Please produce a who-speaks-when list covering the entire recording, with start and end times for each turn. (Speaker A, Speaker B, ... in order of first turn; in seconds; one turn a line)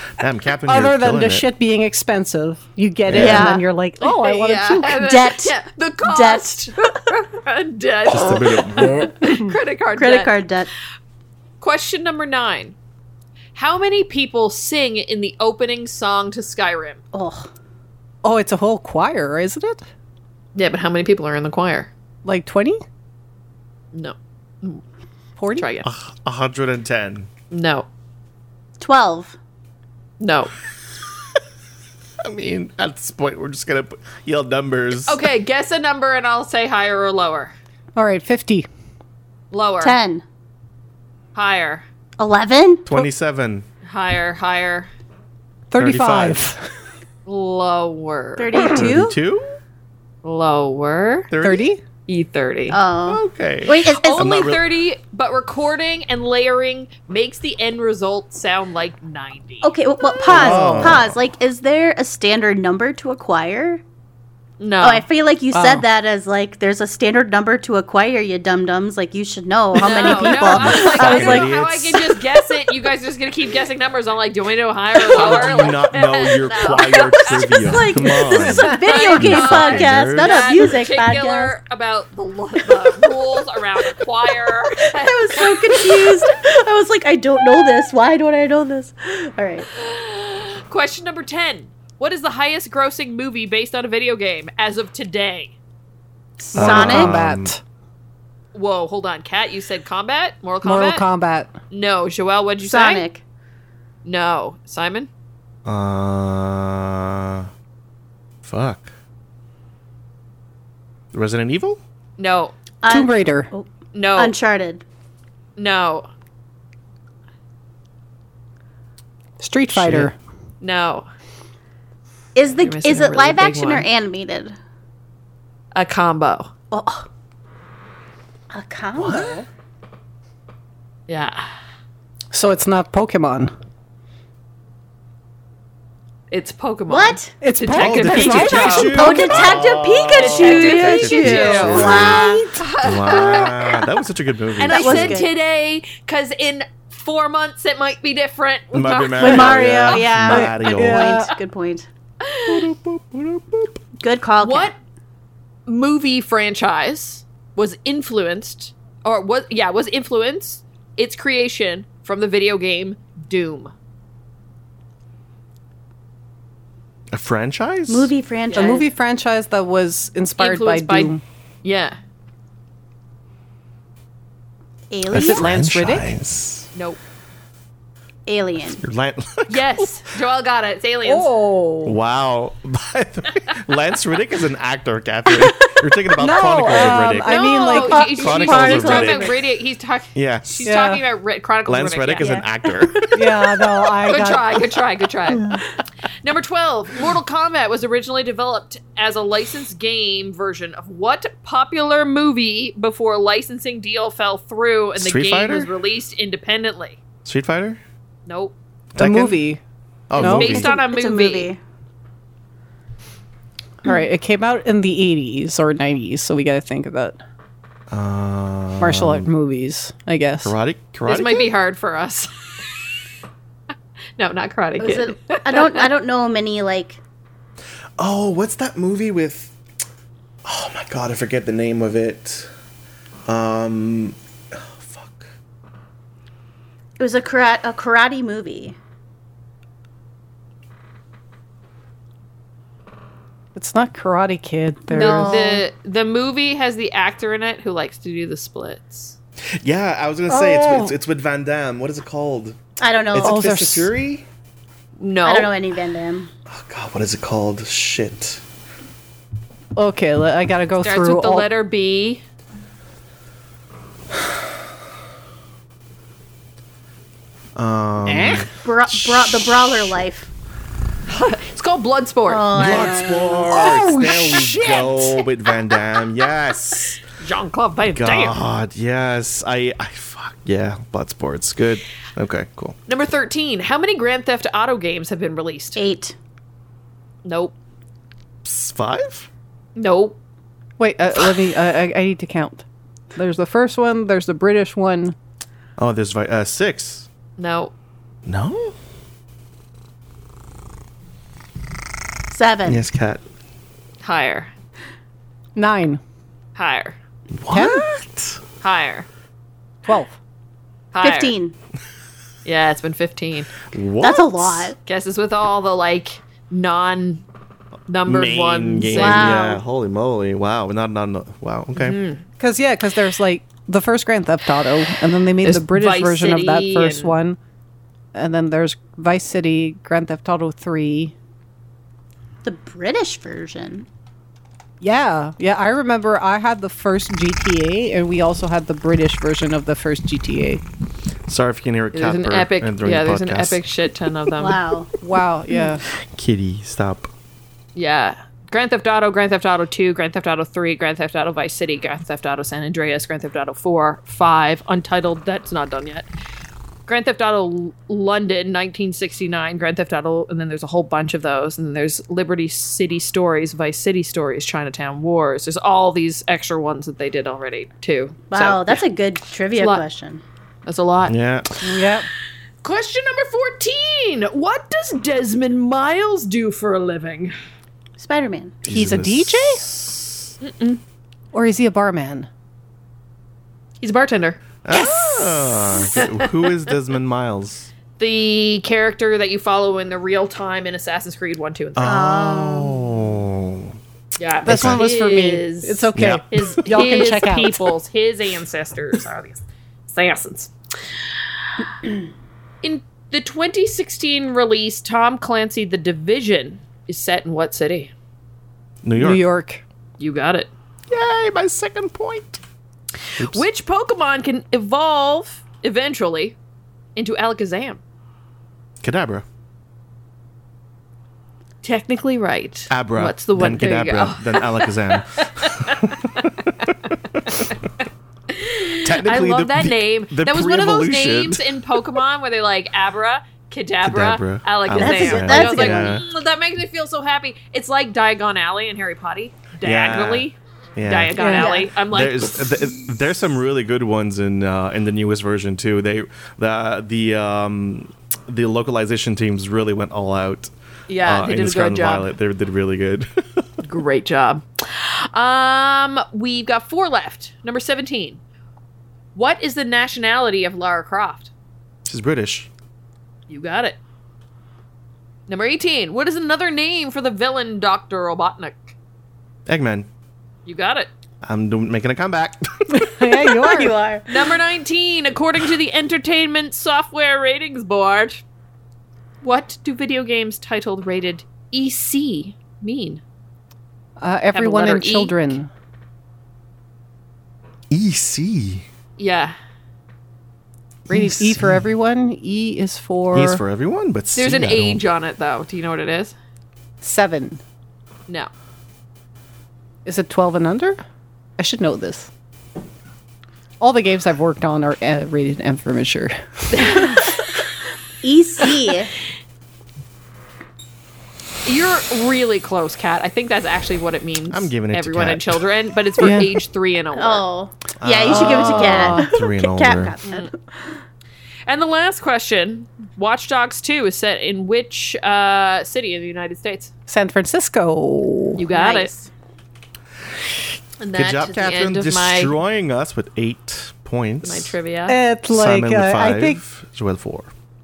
Speaker A: 0.2-1.5
Speaker B: 0.7-5.0
Speaker A: 3.1-3.6
Speaker C: 3.1-3.7
Speaker D: 4.0-10.4
Speaker C: 4.9-6.9
Speaker A: 8.1-9.2
Speaker C: 9.9-10.7
Speaker D: 11.6-12.8
Speaker D: 13.5-17.0
Speaker C: 17.1-17.5
Speaker B: 18.2-19.8
Speaker D: 20.5-21.9
Speaker B: 22.2-22.8
Speaker D: 23.9-24.8
Speaker B: 25.4-25.7
Speaker D: 25.5-25.9
Speaker A: 25.8-27.3
Speaker D: 27.5-27.9
Speaker C: 28.8-29.4
Speaker D: 30.2-30.5
Speaker A: 32.2-35.2
Speaker D: 35.0-37.5
Speaker B: 37.9-38.7
Speaker D: 39.5-40.0
Speaker C: 39.8-40.2
Speaker D: 41.3-41.9
Speaker C: 42.2-42.9
Speaker A: 42.9-43.6
Speaker D: 43.8-44.9
Speaker B: 45.7-46.6
Speaker A: 45.8-46.5
Speaker D: 47.2-48.7
Speaker C: 48.4-49.1
Speaker A: 48.6-49.5
Speaker D: 50.2-51.3
Speaker A: 51.3-51.7
Speaker B: 51.4-51.8
Speaker D: 52.1-52.8
Speaker C: 52.7-54.3
Speaker A: 53.0-54.6
Speaker D: 53.8-60.4
Speaker C: 59.6-63.8
Speaker A: 60.2-61.2
Speaker B: 60.3-61.0
Speaker D: 64.6-65.0
Speaker C: 64.8-71.6
Speaker B: 65.5-65.8
Speaker D: 69.8-86.3
Speaker B: 69.8-70.1
Speaker A: 70.4-72.1
Speaker C: 75.1-75.7
Speaker A: 75.1-80.5
Speaker C: 77.3-81.5
Speaker B: 78.4-78.7
Speaker C: 84.8-89.7
Speaker D: 89.7-95.5
Speaker C: 96.4-97.2
Speaker B: 96.5-97.6
Speaker A: 96.5-97.6
Speaker D: 98.5-101.1
Speaker B: 100.6-101.5
Speaker D: 101.7-103.0
Speaker C: 102.6-103.2
Speaker D: 104.0-105.1
Speaker A: 105.6-107.5
Speaker A: 108.4-108.9
Speaker A: 111.1-111.8
Speaker D: 112.2-112.5
Speaker C: 112.8-114.8
Speaker B: 112.9-113.5
Speaker D: 113.9-114.3
Speaker D: 115.5-116.1
Speaker B: 119.4-120.1
Speaker A: 119.7-120.1
Speaker D: 120.6-121.1
Speaker C: 122.3-124.5
Speaker D: 122.6-123.9
Speaker D: 125.7-126.5
Speaker C: 126.7-127.0
Speaker C: 128.5-129.4
Speaker A: 129.0-129.4
Speaker D: 131.1-131.4
Speaker B: 132.3-133.5
Speaker D: 136.3-139.2
Speaker C: 136.9-137.4
Speaker B: 137.4-139.6
Speaker A: 137.8-145.2
Speaker C: 138.8-142.5
Speaker D: 140.1-143.9
Speaker B: 141.3-142.6
Speaker D: 144.6-150.1
Speaker C: 144.7-145.3
Speaker A: 148.7-151.2
Speaker C: 149.2-151.9
Speaker B: 150.2-151.3
Speaker D: 152.2-152.7
Speaker A: 152.4-153.7
Speaker C: 154.0-154.7
Speaker D: 154.4-154.8
Speaker D: 155.7-163.7
Speaker A: 167.1-168.1
Speaker C: 167.9-168.9
Speaker D: 168.5-168.8
Speaker B: 168.5-171.2
Speaker D: 170.4-172.0
Speaker C: 174.9-175.5
Speaker A: 175.1-176.7
Speaker B: 175.1-176.1
Speaker D: 176.7-177.0
Speaker C: 178.3-178.8
Speaker A: 178.8-180.0
Speaker D: 179.5-181.3
Speaker B: 181.0-182.0
Speaker A: 181.8-189.3
Speaker B: 186.2-189.2
Speaker D: 186.7-192.4
Speaker C: 188.3-189.3
Speaker A: 190.1-190.7
Speaker B: 190.6-191.0
Speaker A: 191.7-193.2
Speaker C: 192.2-192.4
Speaker B: 193.1-194.6
Speaker D: 194.0-195.6
Speaker D: 196.2-207.0
Speaker A: 204.9-205.7
Speaker A: 207.2-207.8
Speaker D: 208.2-208.5
Speaker A: 208.9-209.4
Speaker B: 209.0-209.6
Speaker A: 210.1-210.7
Speaker B: 210.2-210.6
Speaker D: 210.2-211.5
Speaker C: 210.4-211.6
Speaker B: 213.8-217.2
Speaker A: 217.9-219.3
Speaker B: 218.8-220.5
Speaker A: 220.4-221.5
Speaker D: 221.1-223.0
Speaker D: 224.2-225.9
Speaker C: 224.8-227.0
Speaker A: 228.0-229.5
Speaker A: 230.4-232.5
Speaker A: 233.2-235.3
Speaker C: 237.0-238.8
Speaker B: 243.5-245.4
Speaker C: 244.9-245.6
Speaker D: 244.9-249.2
Speaker A: 249.6-252.6
Speaker B: 250.3-250.9
Speaker C: 252.8-253.5
Speaker A: 253.1-254.2
Speaker B: 253.2-253.9
Speaker D: 255.0-255.5
Speaker C: 255.2-256.3
Speaker A: 256.5-258.4
Speaker B: 259.8-261.5
Speaker D: 260.8-262.2
Speaker A: 267.6-268.5
Speaker B: 268.1-268.5
Speaker C: 268.6-270.3
Speaker D: 271.1-275.8
Speaker C: 272.3-273.8
Speaker A: 272.5-277.0
Speaker D: 277.0-278.4
Speaker A: 277.9-282.8
Speaker D: 282.9-285.8
Speaker C: 285.8-286.1
Speaker D: 287.2-287.5
Speaker A: 288.4-289.3
Speaker D: 289.8-290.2
Speaker B: 290.8-295.1
Speaker A: 295.8-297.1
Speaker D: 297.4-297.7
Speaker A: 298.2-298.7
Speaker C: 302.3-302.8
Speaker A: 302.6-303.2
Speaker D: 304.0-304.5
Speaker B: 305.6-306.0
Speaker D: 306.5-307.0
Speaker A: 307.3-308.4
Speaker B: 307.5-307.9
Speaker D: 308.6-309.1
Speaker B: 309.8-310.1
Speaker D: 310.9-311.3
Speaker C: 311.0-311.5
Speaker D: 312.4-313.5
Speaker A: 313.7-314.7
Speaker C: 314.0-314.8
Speaker D: 314.9-317.2
Speaker D: 317.9-319.4
Speaker A: 318.0-322.0
Speaker C: 318.9-319.6
Speaker D: 321.8-322.2
Speaker B: 322.4-327.4
Speaker D: 325.4-327.2
Speaker B: 328.1-331.1
Speaker C: 332.4-333.9
Speaker B: 334.8-340.6
Speaker A: 341.3-343.6
Speaker D: 341.9-344.6
Speaker C: 344.4-344.9
Speaker B: 345.0-345.8
Speaker A: 345.9-347.1
Speaker D: 347.7-356.1
Speaker D: 356.9-368.8
Speaker C: 368.3-370.2
Speaker D: 369.6-369.8
Speaker D: 370.6-371.1
Speaker A: 371.1-371.6
Speaker B: 371.6-372.1
Speaker D: 372.6-377.3
Speaker C: 378.0-378.6
Speaker A: 378.6-380.3
Speaker B: 378.7-379.6
Speaker D: 380.4-380.8
Speaker B: 381.3-382.3
Speaker D: 383.8-386.7
Speaker A: 384.6-387.7
Speaker D: 388.0-392.1
Speaker A: 391.8-393.8
Speaker C: 391.8-393.0
Speaker D: 394.1-400.5
Speaker B: 394.4-397.7
Speaker A: 394.4-394.9
Speaker A: 395.9-396.7
Speaker D: 402.6-407.9
Speaker A: 408.8-409.2
Speaker B: 409.0-409.6
Speaker D: 410.0-410.5
Speaker A: 410.9-412.4
Speaker A: 413.2-413.4
Speaker D: 413.2-416.4
Speaker D: 416.9-417.8
Speaker A: 418.8-419.2
Speaker D: 421.6-426.2
Speaker A: 422.7-427.5
Speaker D: 428.3-442.9
Speaker A: 428.8-431.6
Speaker A: 433.8-436.1
Speaker C: 434.7-435.9
Speaker A: 439.6-441.2
Speaker B: 441.2-441.5
Speaker C: 441.2-441.7
Speaker A: 441.9-450.5
Speaker D: 450.9-452.1
Speaker A: 451.0-453.4
Speaker D: 453.6-458.2
Speaker D: 459.1-461.3
Speaker A: 461.8-462.5
Speaker D: 463.3-463.8
Speaker D: 465.3-468.7
Speaker A: 469.5-469.9
Speaker D: 470.4-470.9
Speaker A: 471.2-473.1
Speaker B: 472.7-473.8
Speaker C: 473.4-474.1
Speaker D: 474.1-478.2
Speaker D: 479.2-483.0
Speaker B: 484.0-485.5
Speaker D: 484.3-485.3
Speaker A: 487.7-488.6
Speaker D: 489.0-489.3
Speaker A: 490.9-491.6
Speaker B: 490.9-493.4
Speaker A: 493.1-494.8
Speaker D: 494.1-496.1
Speaker B: 496.8-497.4
Speaker B: 499.8-500.8
Speaker B: 501.4-502.1
Speaker B: 503.6-507.1
Speaker D: 506.5-507.1
Speaker C: 508.0-508.9
Speaker D: 511.4-517.2
Speaker A: 514.3-515.5
Speaker B: 516.0-516.3
Speaker C: 516.9-520.8
Speaker A: 517.8-520.0
Speaker B: 518.1-519.1
Speaker D: 521.4-526.7
Speaker B: 526.9-528.4
Speaker D: 528.4-528.9
Speaker C: 528.5-529.1
Speaker D: 530.8-532.3
Speaker A: 530.9-534.5
Speaker D: 534.2-535.0
Speaker B: 534.9-536.4
Speaker A: 535.3-537.3